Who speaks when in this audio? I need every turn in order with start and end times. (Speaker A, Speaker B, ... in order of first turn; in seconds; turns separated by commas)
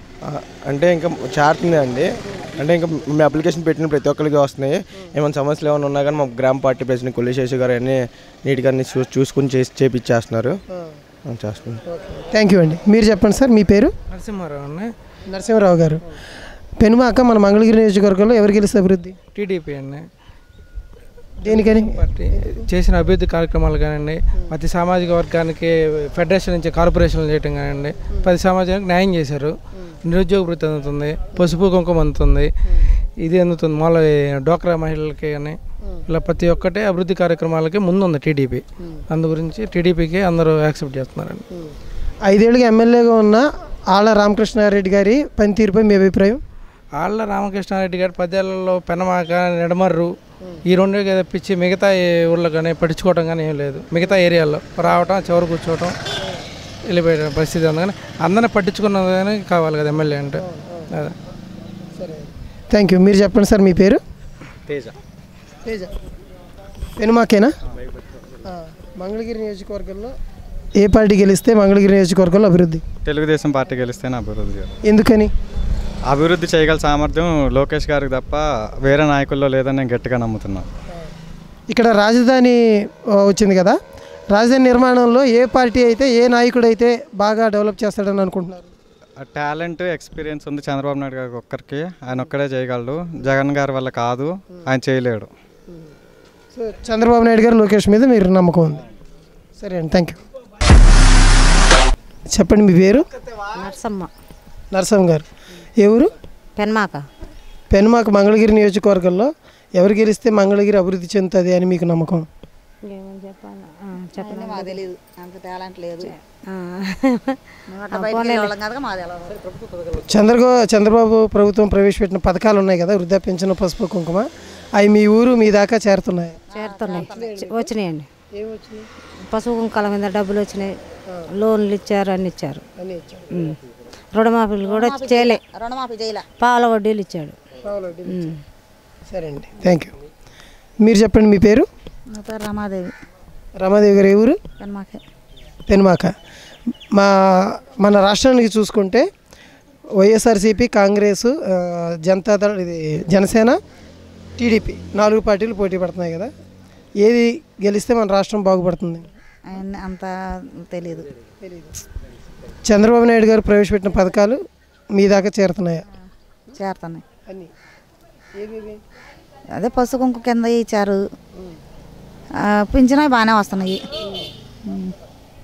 Speaker A: 0.2-10.6, Speaker A: 11.3-11.8, Speaker B: 11.9-13.9, Speaker C: 14.1-14.9, Speaker B: 15.3-16.0, Speaker B: 16.8-19.1, Speaker C: 19.3-20.0, Speaker B: 21.4-22.6, Speaker C: 21.4-29.5, Speaker C: 30.1-32.5, Speaker C: 33.2-41.4, Speaker B: 42.2-46.4, Speaker C: 47.0-50.1, Speaker C: 50.7-55.9, Speaker C: 56.9-60.4, Speaker B: 60.4-60.9, Speaker B: 62.0-64.0, Speaker B: 65.6-65.9, Speaker B: 67.0-67.5, Speaker B: 68.5-70.1, Speaker B: 70.8-72.8, Speaker D: 73.0-74.7, Speaker B: 74.8-75.3, Speaker D: 76.1-80.7, Speaker B: 81.7-82.6, Speaker B: 83.2-83.8, Speaker B: 84.3-88.7, Speaker D: 89.2-95.3, Speaker B: 96.5-98.8, Speaker B: 99.6-100.2, Speaker B: 102.3-103.0, Speaker E: 103.5-104.1, Speaker B: 104.7-105.3, Speaker B: 105.8-106.1, Speaker E: 106.5-107.0, Speaker B: 107.7-112.2, Speaker E: 112.8-114.8, Speaker F: 114.2-116.1, Speaker E: 116.0-117.4, Speaker F: 117.7-119.3, Speaker E: 117.9-118.5, Speaker B: 120.0-126.4, Speaker F: 126.5-127.4, Speaker E: 126.5-128.1, Speaker B: 127.1-127.7, Speaker B: 128.3-128.8, Speaker E: 129.3-130.7, Speaker E: 131.3-132.6, Speaker B: 132.8-133.2, Speaker E: 133.3-133.6, Speaker E: 134.1-135.4, Speaker F: 134.6-136.3, Speaker E: 136.4-137.3, Speaker B: 137.6-138.2, Speaker E: 138.1-138.3, Speaker B: 139.1-139.9, Speaker B: 140.8-141.7, Speaker F: 142.1-142.9, Speaker B: 143.6-144.4, Speaker F: 144.6-145.0, Speaker B: 145.7-146.1, Speaker B: 146.9-149.1, Speaker B: 150.0-153.6, Speaker B: 154.4-156.3, Speaker B: 157.0-159.1, Speaker F: 159.5-161.1, Speaker B: 161.4-161.7, Speaker B: 162.6-164.4, Speaker B: 164.9-165.8, Speaker F: 166.5-167.0, Speaker B: 168.4-168.8, Speaker F: 169.6-171.0, Speaker F: 172.4-173.8, Speaker F: 174.6-174.9